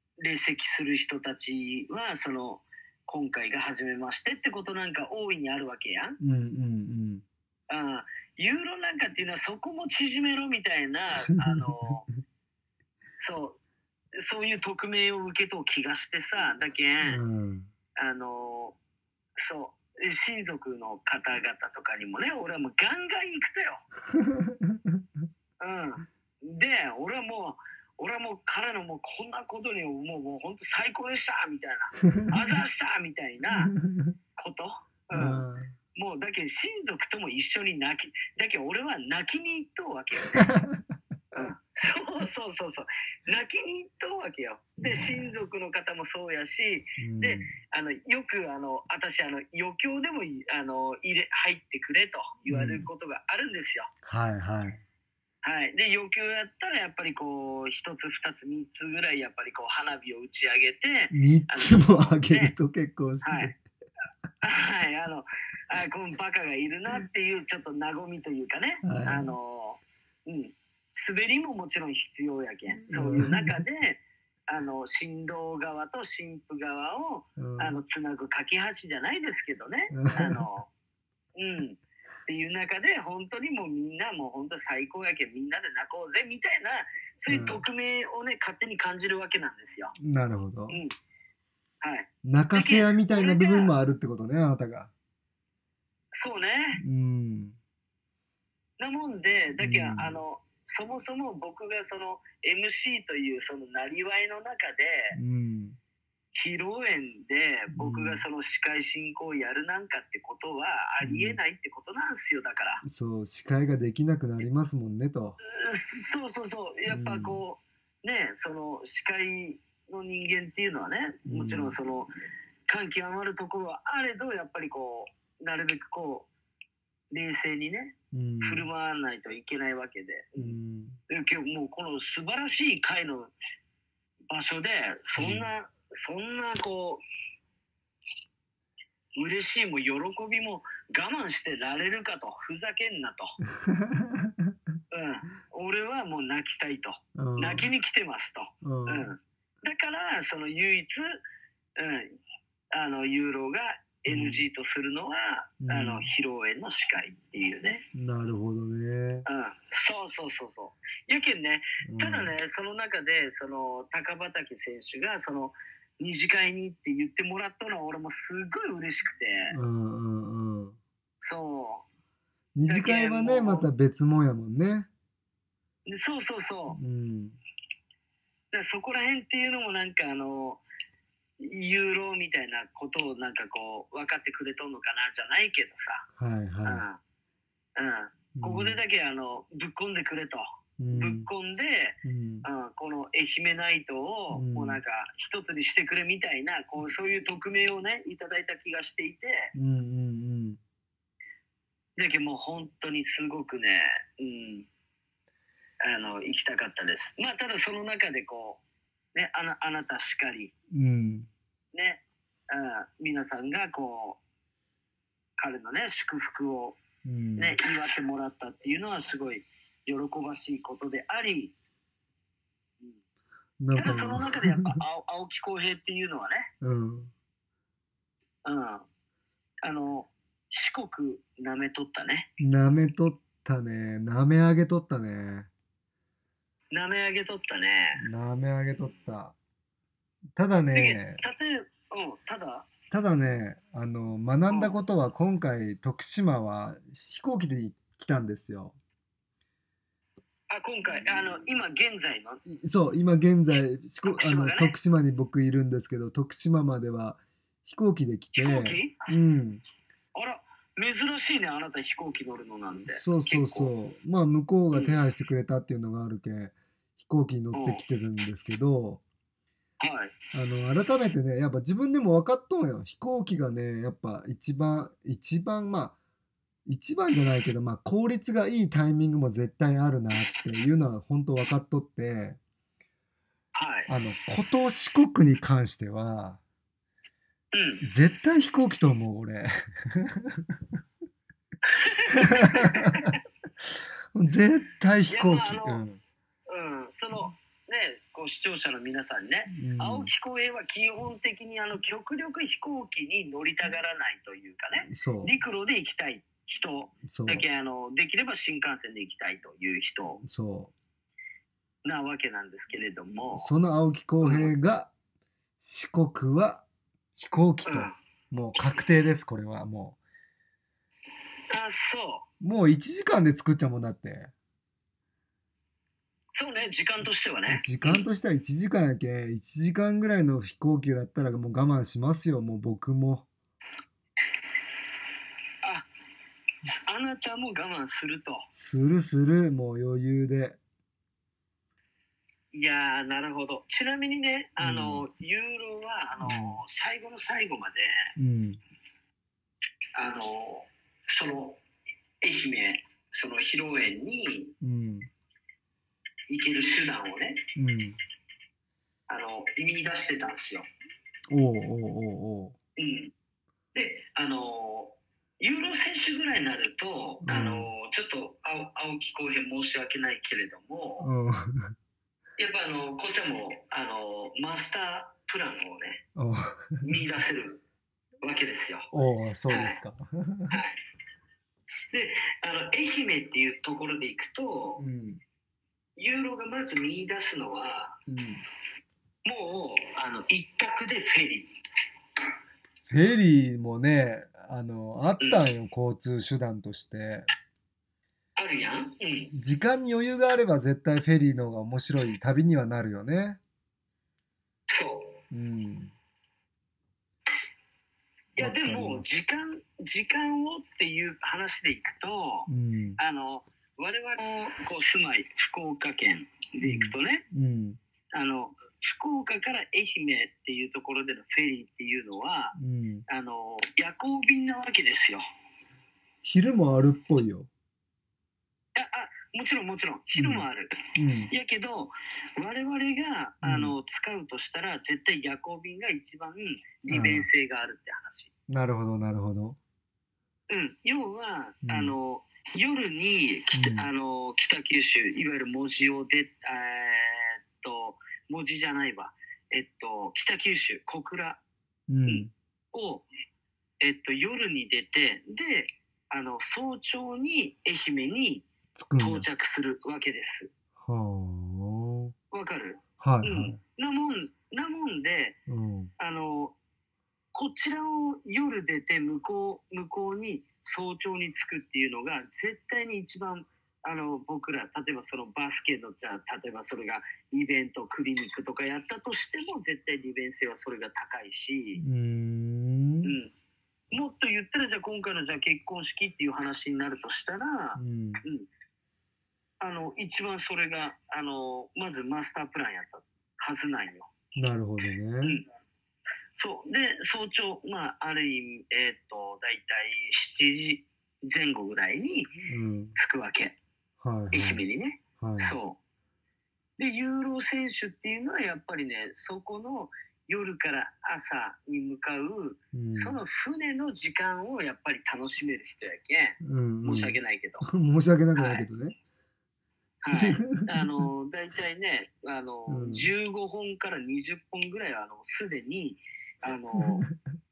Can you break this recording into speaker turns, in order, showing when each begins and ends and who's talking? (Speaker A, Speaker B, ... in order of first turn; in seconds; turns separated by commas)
Speaker A: 0.2-6.2, Speaker B: 6.2-7.2, Speaker A: 7.7-12.1, Speaker B: 11.4-11.7, Speaker A: 13.2-13.6, Speaker A: 14.2-17.2, Speaker B: 17.1-17.7, Speaker A: 18.0-18.8, Speaker A: 19.4-23.8, Speaker B: 24.1-25.0, Speaker A: 25.6-33.7, Speaker B: 32.0-32.3, Speaker B: 33.6-34.1, Speaker A: 34.4-35.4, Speaker B: 35.1-35.7, Speaker A: 36.0-40.5, Speaker B: 40.3-40.8, Speaker A: 41.3-53.9, Speaker B: 44.8-45.3, Speaker B: 47.0-47.5, Speaker B: 52.5-52.9, Speaker B: 54.0-54.8, Speaker A: 55.4-62.5, Speaker B: 61.1-63.6, Speaker A: 63.2-63.5, Speaker A: 64.4-80.7, Speaker B: 68.8-69.4, Speaker B: 72.9-73.6, Speaker B: 77.4-77.8, Speaker B: 79.9-80.4, Speaker A: 81.4-90.0, Speaker B: 87.3-87.6, Speaker B: 90.0-90.8, Speaker A: 91.8-93.7, Speaker B: 92.2-94.9, Speaker A: 96.1-96.8, Speaker B: 96.8-97.6, Speaker A: 98.8-105.2, Speaker B: 99.6-100.2, Speaker B: 105.1-105.8, Speaker A: 106.3-112.8, Speaker B: 107.8-108.2, Speaker B: 111.0-111.4, Speaker B: 112.8-115.4, Speaker A: 115.5-122.1, Speaker B: 116.9-117.4, Speaker B: 121.3-121.8, Speaker A: 122.7-126.3, Speaker A: 127.1-130.6, Speaker B: 128.1-128.7, Speaker B: 130.4-131.0, Speaker A: 131.1-133.3, Speaker A: 134.3-137.0, Speaker B: 135.2-135.5, Speaker A: 139.2-143.4, Speaker B: 143.6-144.6, Speaker A: 144.9-151.2, Speaker B: 147.2-147.7, Speaker B: 148.6-149.1, Speaker A: 151.8-152.1, Speaker A: 152.7-157.8, Speaker B: 154.1-154.4, Speaker B: 155.6-156.1, Speaker B: 157.9-159.2, Speaker A: 159.3-169.6, Speaker B: 161.8-162.3, Speaker B: 169.5-170.8, Speaker A: 171.2-171.8, Speaker B: 172.6-174.9, Speaker A: 172.7-173.7, Speaker A: 175.9-176.8, Speaker B: 176.7-177.4, Speaker A: 178.5-180.6, Speaker A: 181.4-186.1, Speaker B: 186.2-186.8, Speaker A: 186.7-187.0, Speaker A: 187.8-199.5, Speaker B: 188.3-188.8, Speaker B: 190.8-191.3, Speaker B: 192.0-192.4, Speaker B: 194.3-194.8, Speaker B: 199.6-200.6, Speaker A: 202.0-204.7, Speaker A: 205.8-208.6, Speaker A: 209.2-210.5, Speaker B: 210.7-211.3, Speaker A: 211.7-214.2, Speaker A: 215.4-216.8, Speaker B: 217.0-217.6, Speaker A: 217.4-221.6, Speaker B: 223.6-224.8, Speaker A: 223.7-226.5, Speaker B: 226.6-227.1, Speaker A: 228.4-228.8, Speaker A: 229.6-232.3, Speaker B: 232.4-235.5, Speaker A: 236.7-238.0, Speaker B: 238.0-239.3, Speaker B: 240.4-241.2, Speaker A: 240.7-242.7, Speaker B: 242.9-248.8, Speaker A: 244.5-244.8, Speaker A: 250.5-252.4, Speaker B: 252.4-259.6, Speaker A: 254.1-254.8, Speaker A: 258.4-259.1, Speaker A: 260.1-263.7, Speaker B: 262.9-269.0, Speaker A: 264.7-265.0, Speaker A: 267.5-267.8, Speaker A: 269.8-270.1, Speaker B: 270.3-276.0, Speaker B: 276.7-282.4, Speaker A: 283.6-283.9, Speaker B: 283.9-286.4, Speaker A: 287.5-287.9, Speaker B: 287.8-290.6, Speaker A: 291.6-293.2, Speaker B: 292.1-293.2, Speaker B: 294.1-296.0, Speaker A: 295.1-295.8, Speaker A: 296.5-310.2, Speaker B: 299.5-300.1, Speaker B: 304.9-305.3, Speaker B: 307.1-307.4, Speaker B: 310.2-310.7, Speaker A: 311.8-313.5, Speaker B: 313.4-314.9, Speaker A: 314.2-314.5, Speaker B: 315.6-316.6, Speaker B: 317.2-320.0, Speaker A: 317.7-317.9, Speaker A: 321.5-322.3, Speaker B: 322.4-324.3, Speaker A: 326.3-328.1, Speaker B: 327.5-333.3, Speaker A: 335.6-335.9, Speaker A: 336.7-338.5, Speaker B: 338.5-340.6, Speaker A: 342.5-348.0, Speaker B: 344.6-345.1, Speaker B: 346.2-346.6, Speaker B: 348.2-348.6, Speaker A: 350.0-351.6, Speaker A: 352.2-354.5, Speaker B: 354.6-355.1, Speaker A: 356.3-357.4, Speaker B: 357.6-358.0, Speaker A: 359.1-360.7, Speaker B: 361.3-362.6, Speaker A: 362.8-363.1, Speaker A: 363.7-371.1, Speaker B: 367.2-367.7, Speaker B: 371.0-371.7, Speaker A: 372.4-376.0, Speaker B: 376.2-376.9, Speaker A: 376.8-377.6, Speaker A: 378.2-378.9, Speaker B: 378.9-380.6, Speaker A: 379.5-379.8, Speaker A: 380.5-380.8, Speaker A: 381.9-384.8, Speaker B: 384.8-385.2, Speaker A: 386.0-388.0, Speaker B: 388.1-388.4, Speaker A: 389.2-391.5, Speaker B: 392.9-397.3, Speaker A: 395.2-395.5, Speaker A: 398.4-399.3, Speaker B: 399.3-403.4, Speaker A: 404.7-405.2, Speaker B: 405.3-405.9, Speaker A: 408.4-417.2, Speaker B: 408.4-409.1, Speaker B: 412.5-413.0, Speaker B: 416.6-417.8, Speaker A: 418.1-422.6, Speaker B: 422.6-423.1, Speaker A: 423.1-425.2, Speaker B: 426.2-427.5, Speaker A: 428.8-430.8, Speaker B: 430.1-431.3, Speaker A: 431.3-438.3, Speaker B: 433.4-433.8, Speaker B: 436.9-437.3, Speaker B: 438.5-439.6, Speaker A: 440.5-451.4, Speaker B: 441.6-442.0, Speaker B: 443.5-443.9, Speaker B: 451.9-452.3, Speaker A: 452.1-453.1, Speaker A: 453.8-458.5, Speaker B: 458.8-459.3, Speaker A: 459.0-460.5, Speaker B: 460.8-462.1, Speaker A: 462.3-465.4, Speaker B: 463.0-463.6, Speaker B: 465.5-465.9, Speaker A: 466.0-466.5, Speaker A: 467.3-481.8, Speaker B: 481.8-483.1, Speaker A: 483.0-483.3, Speaker A: 483.9-488.5, Speaker B: 487.8-488.2, Speaker A: 489.6-494.1, Speaker B: 494.4-495.4, Speaker A: 496.4-502.3, Speaker B: 502.4-503.0, Speaker A: 502.9-503.6, Speaker B: 504.0-504.6, Speaker A: 504.3-505.8, Speaker B: 505.2-505.6, Speaker A: 506.8-517.7, Speaker B: 512.7-513.2, Speaker B: 516.4-518.9, Speaker A: 518.4-518.7, Speaker A: 520.0-527.1, Speaker B: 520.1-521.1, Speaker B: 522.7-523.1, Speaker B: 526.7-527.1